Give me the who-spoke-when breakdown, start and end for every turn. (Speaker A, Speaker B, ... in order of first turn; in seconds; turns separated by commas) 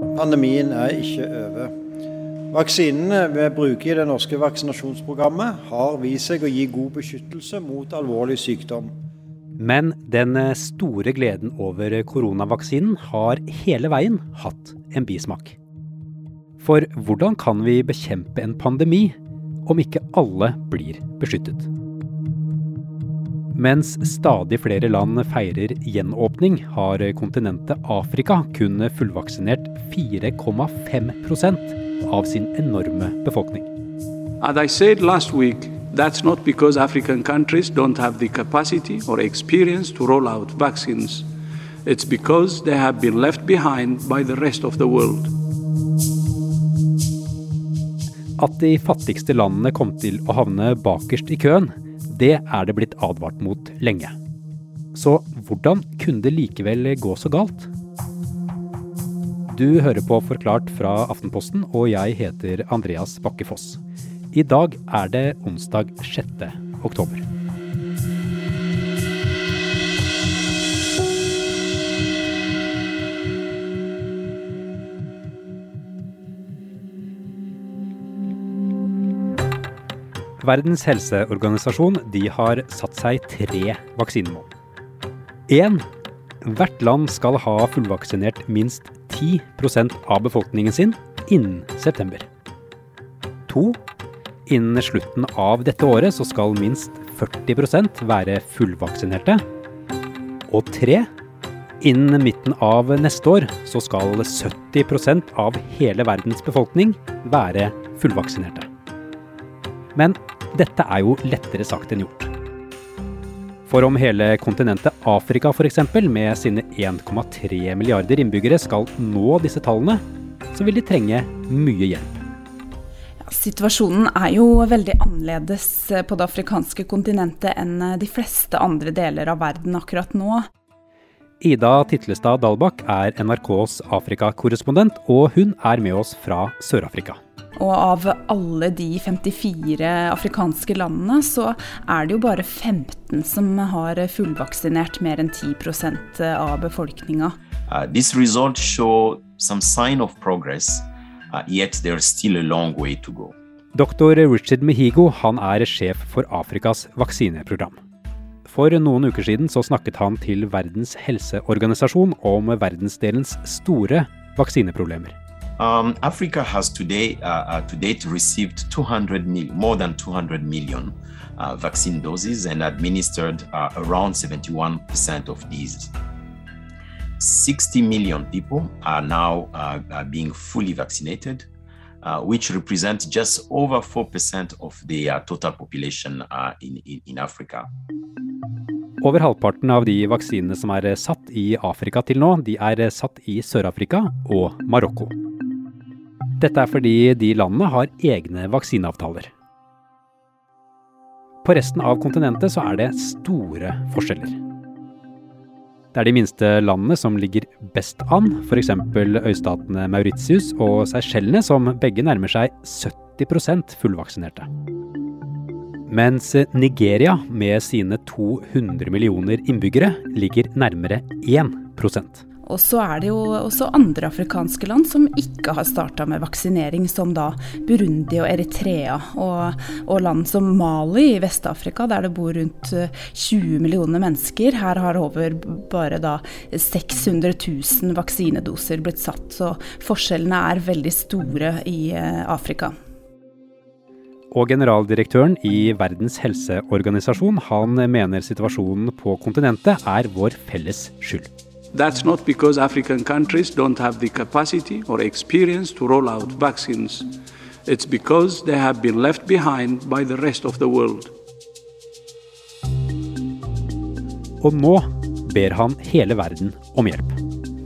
Speaker A: 0.1-1.7, Speaker A: 2.5-8.9, Speaker B: 9.6-15.6, Speaker B: 16.6-21.7, Speaker B: 23.6-33.7, Speaker C: 34.4-41.3, Speaker C: 41.9-45.3, Speaker B: 48.4-54.1, Speaker B: 54.9-57.7, Speaker B: 59.5-63.8, Speaker B: 64.3-67.2, Speaker B: 80.4-84.5, Speaker B: 85.5-85.8, Speaker B: 86.4-92.3, Speaker B: 93.5-93.8, Speaker B: 94.5-99.4, Speaker B: 100.5-101.1, Speaker B: 101.8-108.7, Speaker B: 110.0-112.3, Speaker B: 113.7-122.2, Speaker D: 123.2-130.5, Speaker B: 131.4-137.2, Speaker D: 137.6-147.4, Speaker E: 147.7-153.3, Speaker B: 153.8-157.8, Speaker B: 158.5-165.2, Speaker E: 165.6-175.9, Speaker E: 177.2-181.5, Speaker E: 182.0-187.7, Speaker B: 189.0-195.1, Speaker B: 196.4-199.3, Speaker B: 201.4-204.4, Speaker B: 205.9-214.5, Speaker B: 215.9-222.2, Speaker D: 222.5-242.7, Speaker B: 244.3-251.3, Speaker C: 251.7-257.1, Speaker C: 257.7-261.1, Speaker B: 264.4-267.2